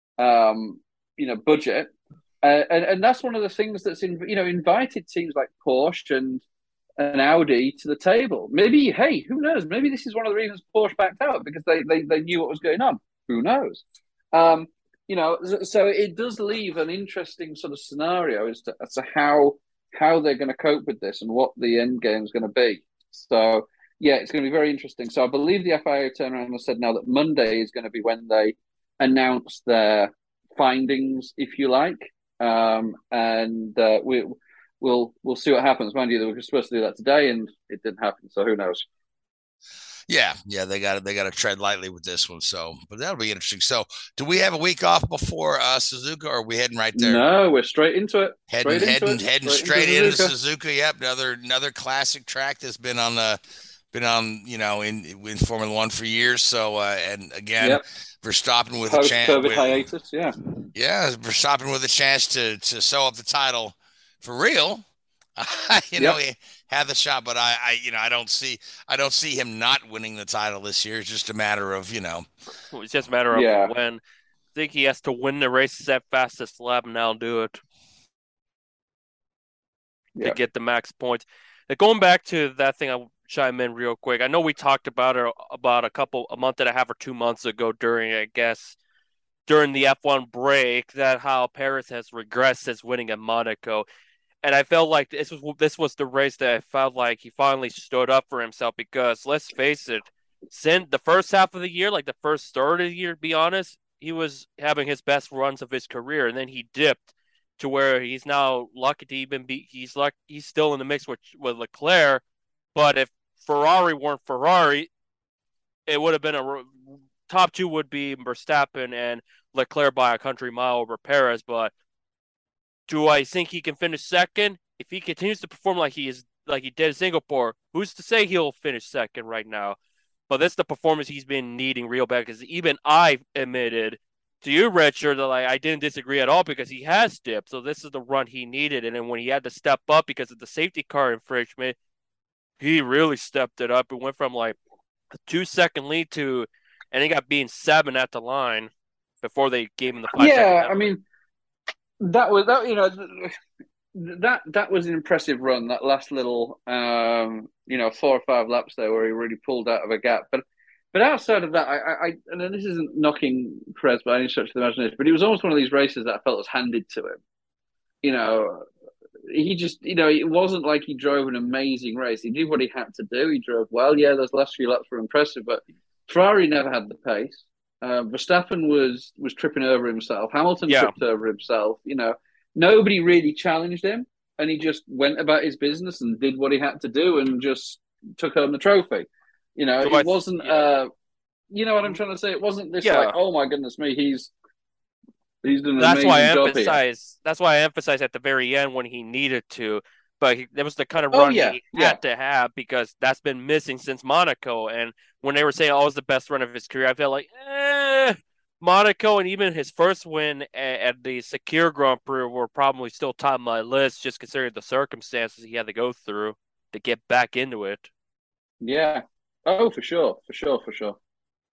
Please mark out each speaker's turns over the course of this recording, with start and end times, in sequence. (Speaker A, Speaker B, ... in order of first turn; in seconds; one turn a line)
Speaker A: 0.2-6.4
Speaker A: 7.0-38.9
Speaker B: 40.1-47.2
Speaker A: 46.9-50.3
Speaker B: 48.5-53.4
Speaker B: 53.9-59.8
Speaker A: 58.9-60.4
Speaker B: 60.7-64.8
Speaker B: 65.3-72.3
Speaker C: 72.7-74.0
Speaker A: 73.3-73.7
Speaker C: 74.5-77.6
Speaker C: 80.2-88.8
Speaker C: 89.5-93.8
Speaker C: 94.4-112.2
Speaker C: 112.7-114.9
Speaker C: 115.9-116.7
Speaker C: 117.3-121.7
Speaker C: 122.9-129.8
Speaker C: 130.3-141.7
Speaker C: 142.6-144.6
Speaker C: 145.3-148.7
Speaker C: 149.2-150.8
Speaker A: 150.2-151.0
Speaker A: 152.0-153.3
Speaker A: 153.9-167.2
Speaker A: 168.0-168.6
Speaker A: 169.3-190.9
Speaker C: 189.8-190.6
Speaker A: 191.5-194.3
Speaker C: 192.8-193.1
Speaker A: 195.4-196.8
Speaker C: 195.8-217.9
Speaker A: 201.1-202.0
Speaker A: 218.6-221.0